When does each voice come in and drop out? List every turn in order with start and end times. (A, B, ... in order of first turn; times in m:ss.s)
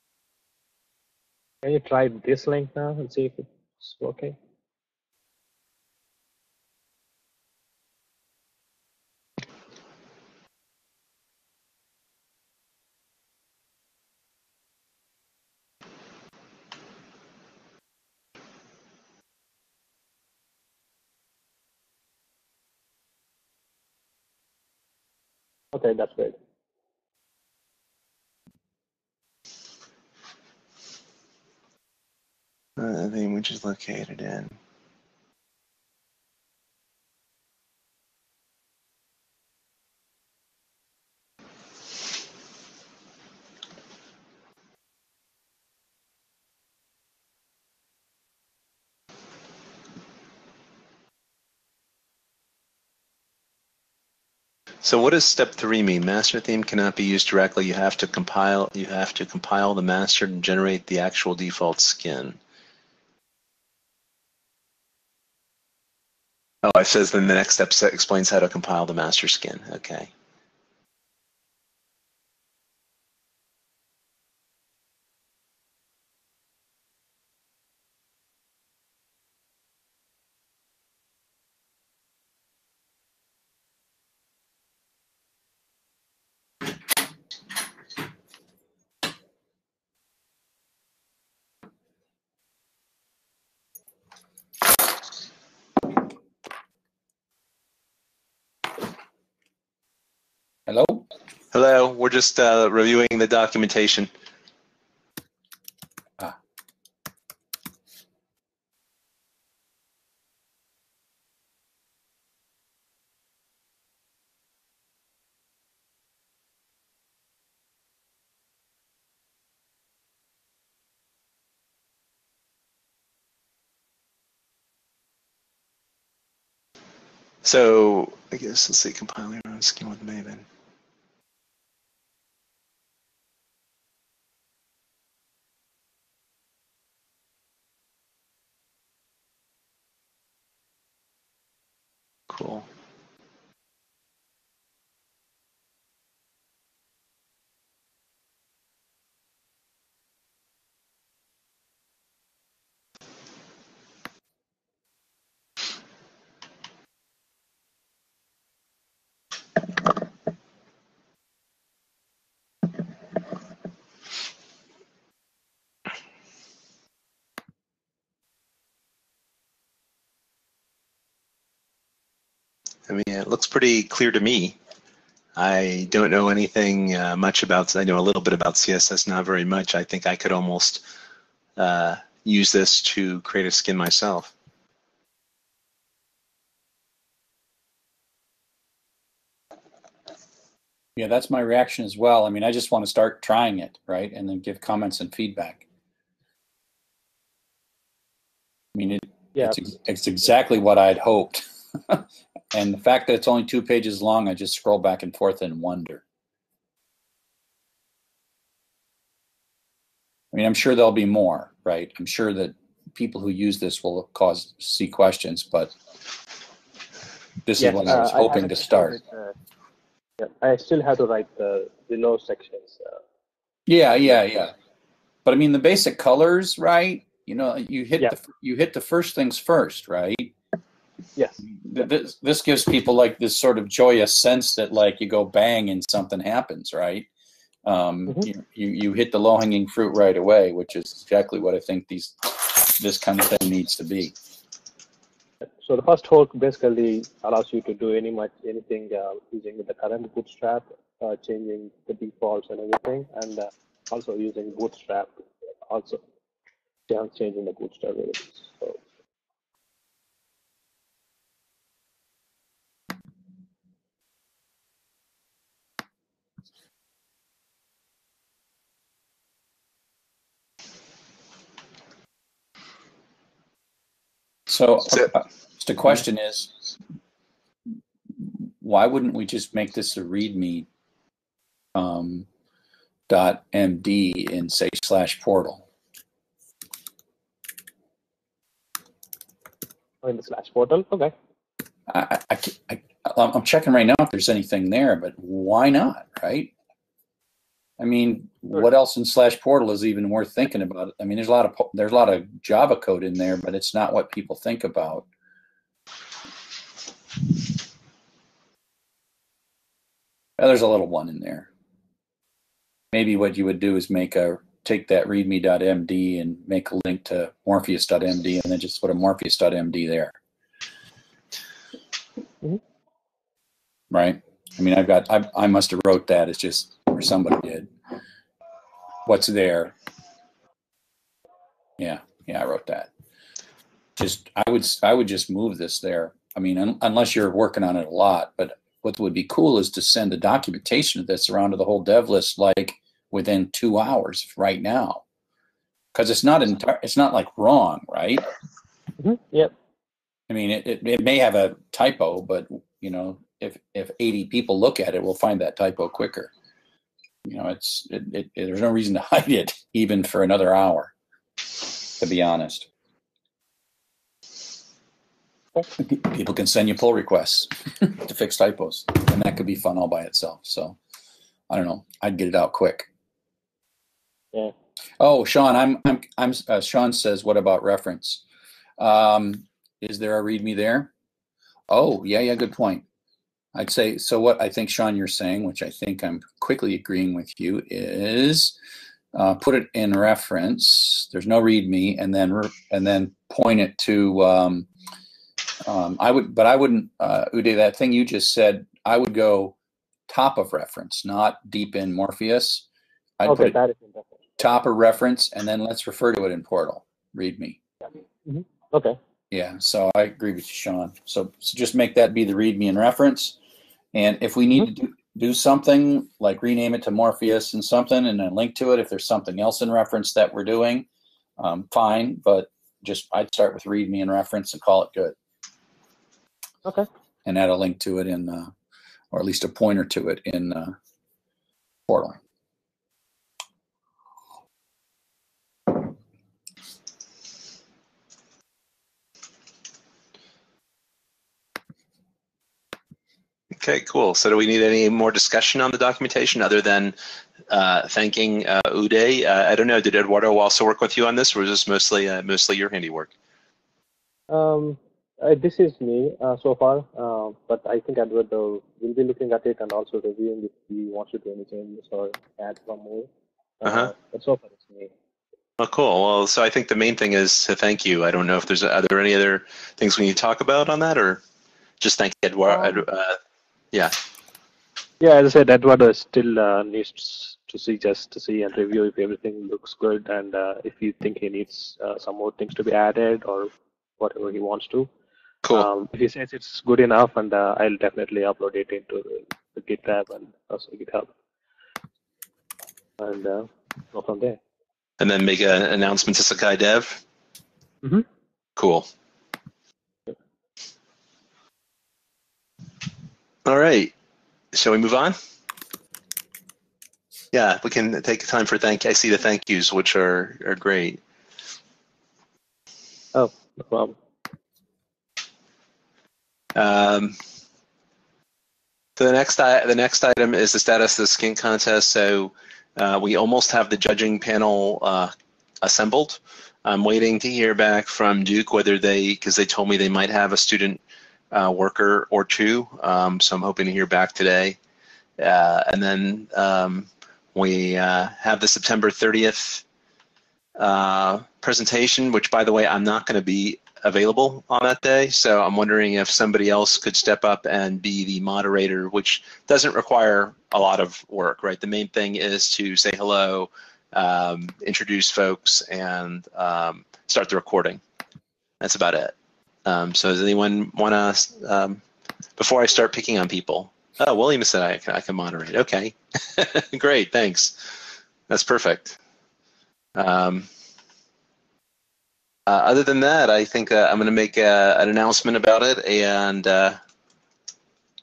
0:01.6-0:04.4 A
0:25.7-0:26.4 A
0:32.8-0:34.6 B
0:54.8-1:02.4 B
1:06.6-1:10.1 B
1:40.7-1:41.0 C
1:41.5-1:44.1 B
2:07.4-2:10.4 B
2:22.3-2:22.7 B
2:52.9-2:54.6 B
2:55.4-3:00.8 B
3:01.6-3:04.3 B
3:11.0-3:15.6 C
3:18.7-3:26.0 C
3:30.3-3:35.7 C
3:37.4-3:39.0 C
3:37.6-3:39.3 A
3:40.2-3:43.0 A
3:43.7-3:44.5 C
3:45.2-3:50.3 C
3:51.2-3:51.4 A
3:51.5-3:57.1 C
3:57.6-4:04.2 C
4:05.4-4:15.1 A
4:15.7-4:16.0 A
4:16.9-4:18.8 A
4:34.5-4:36.5 C
4:38.2-4:40.7 C
4:41.7-4:42.3 C
4:43.1-4:45.6 C
4:50.0-4:51.1 A
4:51.9-4:56.5 C
4:57.8-5:05.1 C
5:10.4-5:11.5 C
5:12.9-5:20.2 C
5:23.9-5:27.7 C
5:29.0-5:29.7 C
5:31.8-5:32.9 C
5:34.0-5:45.0 C
5:45.9-5:48.3 C
5:49.0-5:49.5 A
5:50.3-5:56.3 C
5:57.2-6:00.9 C
6:02.0-6:02.7 C
6:05.8-6:10.8 C
6:11.5-6:12.9 C
6:15.0-6:18.2 C
6:18.8-6:20.9 C
6:21.7-6:22.8 C
6:23.5-6:28.6 C
6:29.1-6:34.7 C
6:35.6-6:39.6 C
6:40.1-6:42.6 C
6:43.2-6:43.6 C
6:43.2-6:44.4 A
6:44.4-6:47.6 C
6:48.3-6:49.0 A
6:49.3-6:53.4 C
6:53.9-7:00.8 C
7:01.4-7:05.2 C
7:07.3-7:08.5 C
7:09.1-7:10.8 C
7:11.9-7:12.2 C
7:23.6-7:27.0 B
7:27.5-7:33.1 B
7:34.3-7:43.1 A
7:43.6-7:44.9 A
7:43.6-7:43.9 B
7:45.6-7:51.2 B
7:51.8-7:53.2 B
7:52.5-7:52.8 A
7:55.0-8:04.9 A
8:05.5-8:11.1 A
8:13.0-8:14.4 A
8:15.0-8:17.0 B
8:18.6-8:18.9 B
8:23.4-8:23.9 B
8:24.5-8:25.2 B
8:27.3-8:31.0 B
8:33.1-8:34.0 A
8:36.6-8:37.2 B
8:39.0-8:54.6 B
8:55.2-8:59.6 B
9:00.6-9:17.8 B
9:18.6-9:19.1 B
9:19.6-9:21.8 B
9:22.4-9:29.0 B
9:29.9-9:30.5 B
9:32.5-9:36.8 B